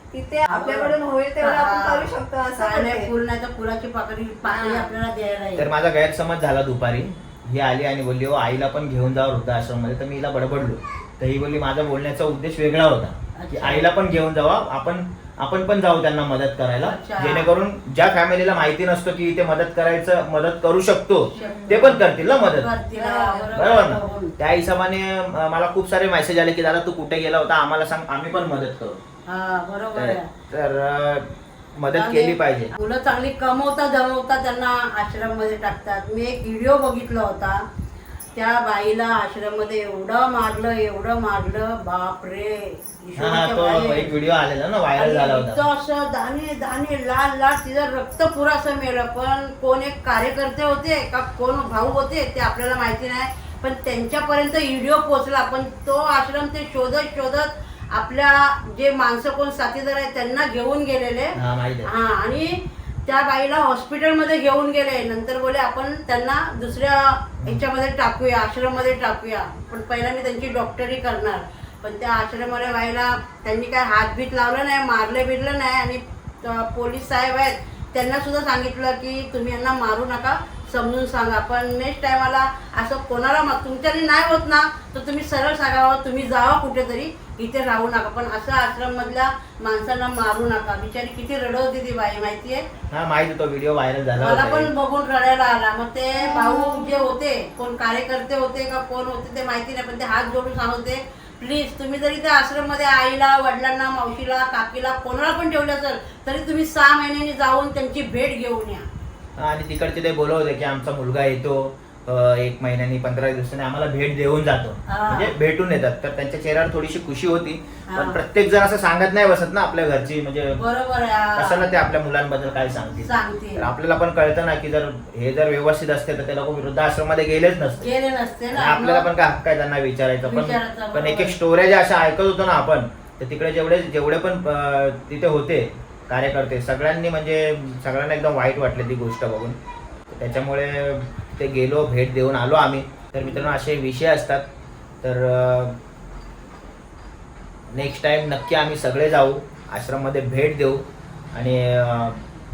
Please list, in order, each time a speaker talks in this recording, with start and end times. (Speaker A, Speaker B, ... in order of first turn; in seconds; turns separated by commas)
Speaker A: 0.1-3.1, Speaker B: 0.5-5.7, Speaker A: 4.5-4.9, Speaker C: 5.6-22.7, Speaker B: 13.4-13.9, Speaker B: 16.8-17.5, Speaker B: 21.3-24.3, Speaker A: 21.4-22.0, Speaker A: 23.0-23.5, Speaker C: 23.5-29.0, Speaker B: 29.3-30.3, Speaker C: 29.9-32.7, Speaker B: 31.9-37.6, Speaker B: 38.4-44.1, Speaker C: 43.2-45.6, Speaker B: 45.0-62.5, Speaker C: 61.4-61.9, Speaker B: 63.1-92.6, Speaker C: 92.9-94.7, Speaker B: 94.2-108.9, Speaker C: 109.4-120.6, Speaker B: 114.9-115.3, Speaker B: 117.9-118.2, Speaker B: 120.6-121.9, Speaker C: 121.4-127.9, Speaker B: 123.0-123.7, Speaker B: 127.8-129.1, Speaker C: 128.5-139.6, Speaker B: 130.2-131.3, Speaker C: 140.1-144.4, Speaker C: 145.0-145.8, Speaker C: 147.7-152.2